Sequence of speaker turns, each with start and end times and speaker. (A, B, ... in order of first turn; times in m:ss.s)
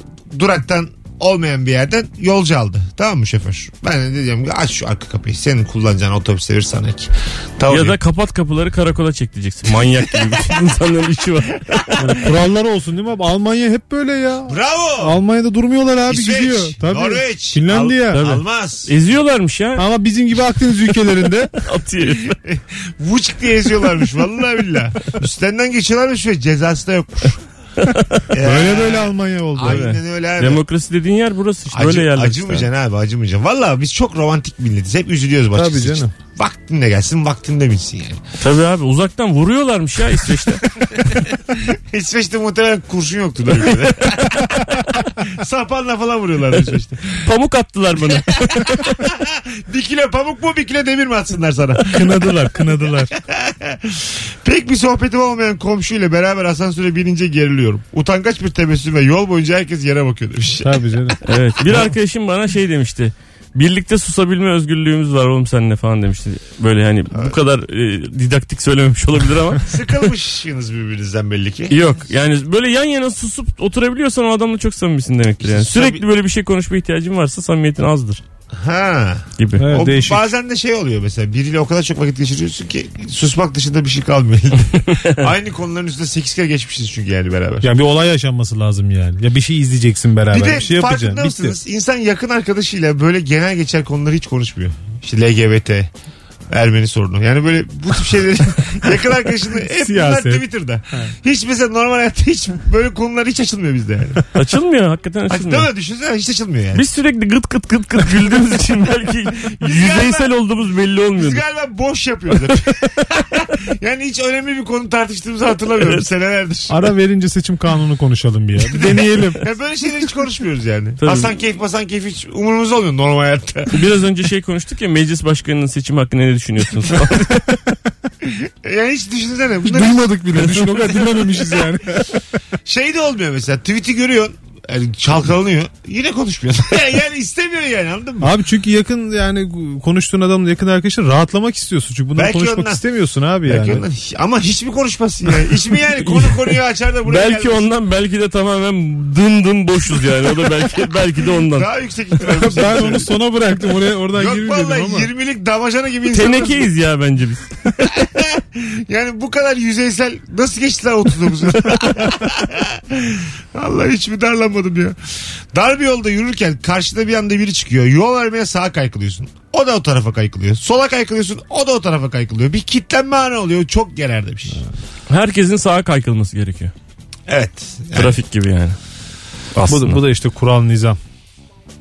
0:00.3-0:08.0 A
0:07.7-0:11.8 B
0:11.7-0:12.1 A
0:12.0-0:18.4 C
0:14.5-0:15.2 A
0:16.1-0:18.9 A
0:18.1-0:19.9 B
0:19.8-0:21.5 C
0:21.6-0:22.4 B
0:22.0-0:27.4 A
0:27.8-0:28.2 B
0:28.3-0:30.6 A
0:28.4-0:29.9 C
0:29.6-0:32.7 B
0:31.7-0:38.2 A
0:35.5-0:36.1 C
0:38.4-0:40.7 B
0:40.9-0:47.2 A
0:47.2-0:49.0 B
0:48.1-0:52.3 A
0:51.9-0:53.1 C
0:53.2-1:01.1 A
1:00.6-1:01.2 C
1:01.2-1:09.6 B
1:09.6-1:11.8 A
1:11.7-1:18.2 B
1:15.4-1:16.0 A
1:18.6-1:27.7 A
1:19.4-1:19.7 B
1:19.6-1:20.3 C
1:27.6-1:31.6 C
1:30.3-1:35.9 A
1:36.5-1:44.2 A
1:39.6-1:41.1 C
1:44.3-1:45.7 B
1:45.3-1:46.8 A
1:46.7-1:51.4 B
1:49.5-1:50.3 A
1:51.2-1:56.8 A
1:56.7-1:59.4 C
1:58.7-2:03.8 A
2:01.0-2:01.3 B
2:03.7-2:07.6 B
2:08.2-2:10.0 A
2:09.6-2:12.2 C
2:10.5-2:10.9 B
2:12.7-2:18.3 A
2:18.2-2:23.8 C
2:22.2-2:22.8 A
2:23.5-2:27.7 A
2:26.0-2:31.7 B
2:31.5-2:33.1 A
2:32.3-2:35.1 C
2:34.2-2:36.7 A
2:36.1-2:37.5 B
2:37.8-2:45.0 A
2:45.5-2:54.6 A
2:55.1-2:56.7 B
2:57.3-2:58.2 A
2:58.0-2:58.8 B
2:59.6-3:00.0 B
2:59.7-3:01.0 C